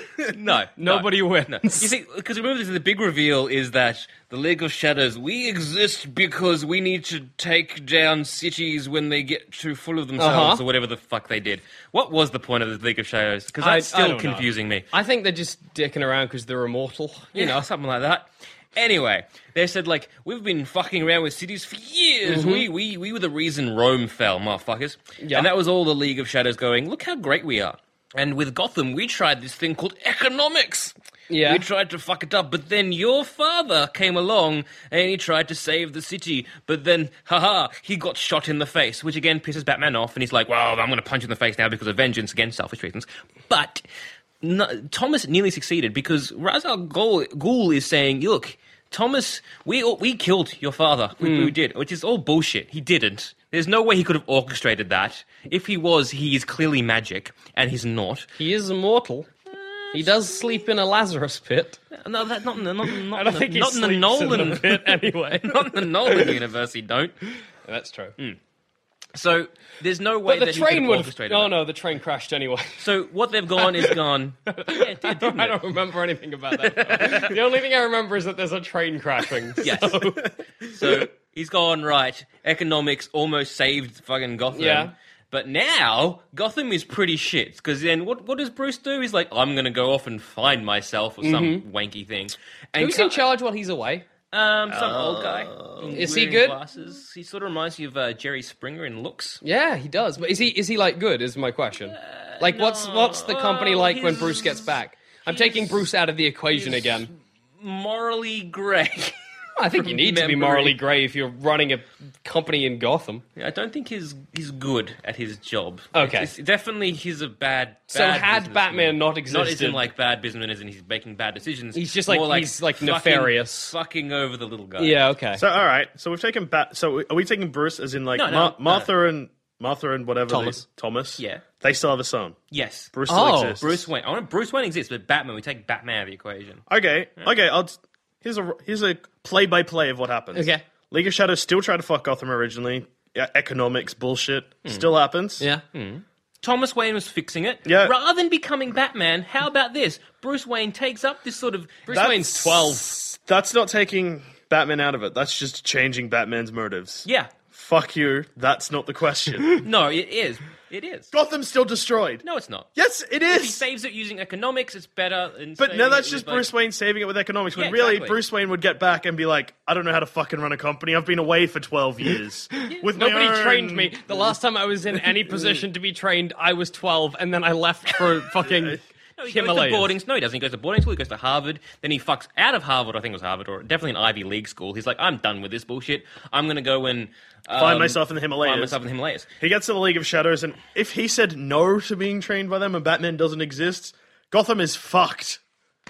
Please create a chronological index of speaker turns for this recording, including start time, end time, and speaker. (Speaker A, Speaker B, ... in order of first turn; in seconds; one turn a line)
Speaker A: 0.3-14.9
Speaker B: 0.8-1.9
Speaker B: 10.2-10.6
Speaker B: 13.6-17.6
Speaker A: 17.4-43.8
Speaker B: 22.3-22.7
Speaker B: 25.2-25.5
Speaker B: 31.3-31.6
Speaker A: 44.4-58.3
Speaker B: 51.2-51.5
Speaker B: 58.4-59.3
Speaker A: 59.5-60.6
Speaker B: 59.9-61.8
Speaker A: 61.9-67.2
Speaker B: 62.9-66.4
Speaker B: 67.7-68.2
Speaker A: 69.1-71.6
Speaker B: 70.3-72.8
Speaker A: 72.8-75.7
Speaker B: 73.6-74.0
Speaker B: 74.5-80.3
Speaker A: 76.5-77.4
Speaker A: 79.6-93.2
Speaker B: 84.5-84.9
Speaker B: 91.2-91.6
Speaker B: 92.8-94.1
Speaker A: 94.3-99.4
Speaker C: 94.7-96.0
Speaker B: 96.0-96.6
Speaker B: 99.4-107.1
Speaker A: 101.9-104.7
Speaker A: 105.2-105.8
Speaker A: 106.5-109.2
Speaker B: 109.6-113.2
Speaker A: 109.7-110.8
Speaker A: 113.4-125.0
Speaker B: 116.0-116.3
Speaker B: 117.9-119.9
Speaker B: 121.7-123.7
Speaker B: 124.8-125.5
Speaker C: 125.4-132.4
Speaker A: 128.1-128.9
Speaker B: 130.3-130.6
Speaker A: 131.2-131.4
Speaker A: 132.5-133.0
Speaker C: 132.9-133.9
Speaker B: 133.1-133.6
Speaker A: 133.6-136.6
Speaker C: 136.7-145.5
Speaker B: 140.3-140.6
Speaker A: 145.7-151.9
Speaker C: 147.7-147.9
Speaker B: 151.9-152.9
Speaker C: 151.9-159.6
Speaker A: 157.1-157.3
Speaker A: 159.6-161.1
Speaker C: 161.1-162.2
Speaker A: 162.2-162.7
Speaker C: 162.8-163.7
Speaker A: 163.3-166.5
Speaker C: 165.6-174.2
Speaker A: 167.5-168.2
Speaker B: 172.9-179.9
Speaker A: 179.2-189.3
Speaker C: 187.5-188.8
Speaker C: 189.4-195.4